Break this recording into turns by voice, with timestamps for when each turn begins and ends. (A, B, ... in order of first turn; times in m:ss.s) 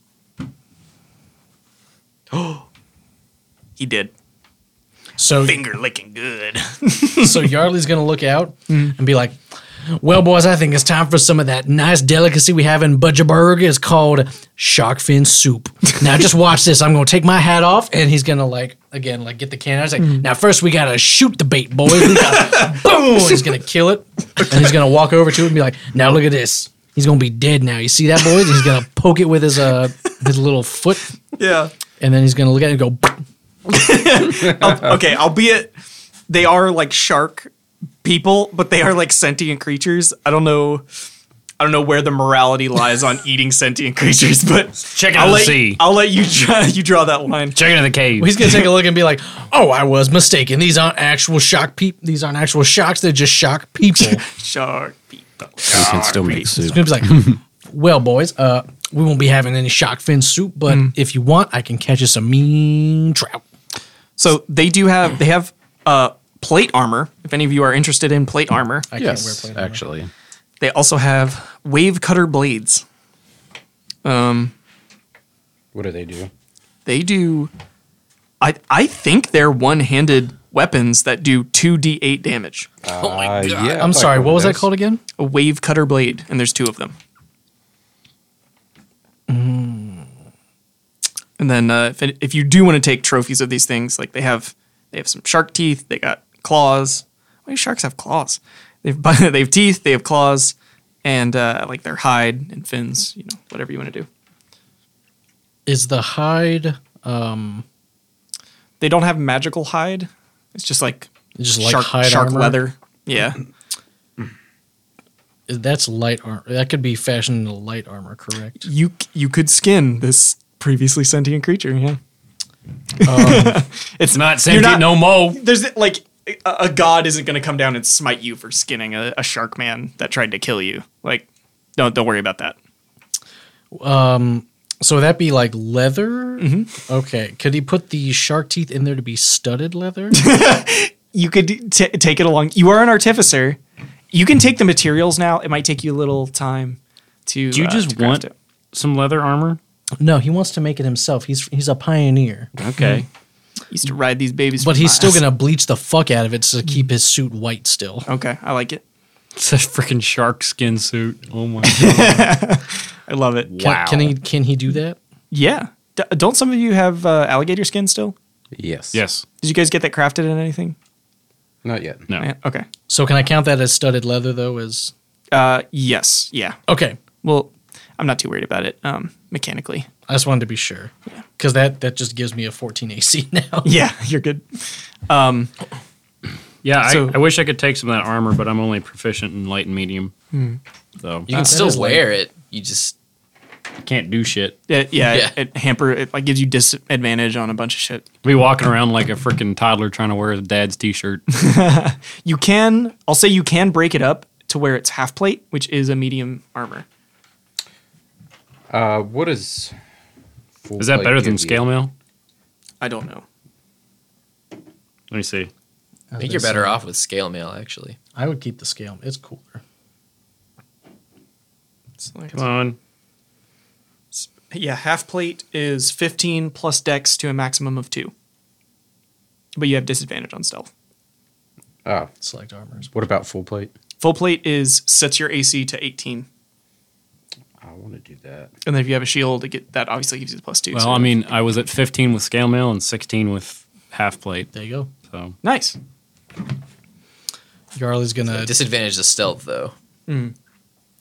0:02.3-0:02.6 A
0:03.8-0:04.1 A
0:05.2-0:05.6 B
0:05.4-0:07.5 A
0:07.1-0:31.1 B
0:22.2-0:22.5 A
0:31.3-0:31.7 A
0:32.0-0:33.2 B
0:33.6-0:35.7 A
0:36.3-0:37.5 A
0:38.0-0:40.8 A
0:41.6-0:47.6 A
0:44.9-0:45.8 C
0:47.5-0:48.4 C
0:48.2-0:54.2 B
0:54.0-0:56.6 A
0:55.6-0:57.3 D
0:56.4-1:03.4 B
1:04.2-1:08.9 A
1:08.9-1:09.8 B
1:09.0-1:10.1 D
1:10.6-1:12.8 A
1:14.0-1:14.5 A
1:15.7-1:16.3 D
1:16.8-1:17.5 A
1:18.4-1:22.7 A
1:22.8-1:24.7 D
1:22.9-1:23.9 E
1:23.7-1:25.0 B
1:25.2-1:26.9 A
1:29.3-1:30.1 B
1:31.4-1:44.1 A
1:45.6-1:47.6 B
1:48.8-1:53.4 A
1:51.4-1:52.6 B
1:55.5-1:58.7 B
1:58.6-2:02.0 A
2:03.0-2:12.6 A
2:03.0-2:03.6 B
2:04.1-2:05.4 C
2:13.7-2:20.3 B
2:16.4-2:16.7 A
2:20.1-2:23.6 A
2:24.1-2:28.3 A
2:27.5-2:29.6 C
2:30.0-2:33.0 B
2:32.6-2:33.0 C
2:33.7-2:35.2 A
2:34.6-2:38.0 B
2:38.0-2:38.8 A
2:39.3-2:42.4 C
2:41.6-2:43.6 A
2:43.4-2:44.1 C
2:43.6-2:45.0 B
2:45.3-2:48.1 A
2:48.5-2:49.0 D
2:48.9-2:49.2 C
2:49.4-2:50.8 A
2:51.6-2:52.1 D
2:52.2-2:52.7 A
2:52.9-2:54.9 B
2:55.3-2:56.6 A
2:56.7-2:57.0 B
2:57.1-2:59.9 A
3:00.1-3:03.7 B
3:03.6-3:05.5 A
3:06.6-3:10.1 C
3:06.8-3:07.2 A
3:10.3-3:10.6 A
3:11.0-3:11.3 C
3:11.3-3:12.9 E
3:11.3-3:12.0 B
3:13.8-3:14.6 C
3:14.7-3:18.0 A
3:15.1-3:15.4 E
3:18.2-3:21.2 C
3:21.3-3:26.8 A
3:28.7-3:29.7 D
3:30.6-3:31.6 D
3:30.8-3:31.9 C
3:32.8-3:33.2 A
3:35.1-3:35.5 C
3:36.1-3:36.8 B
3:36.2-3:38.0 E
3:38.1-3:39.6 B
3:42.0-3:42.4 A
3:42.3-3:42.8 C
3:44.1-3:48.1 A
3:49.6-3:50.7 A
3:51.8-3:52.1 D
3:52.2-3:52.9 B
3:52.9-3:53.7 D
3:54.0-3:56.3 A
3:57.6-3:58.5 D
3:58.6-4:01.1 A
4:00.7-4:04.5 C
4:04.5-4:04.9 B
4:05.0-4:05.4 C
4:05.4-4:05.8 A
4:07.8-4:08.5 B
4:08.3-4:09.7 E
4:10.1-4:10.3 A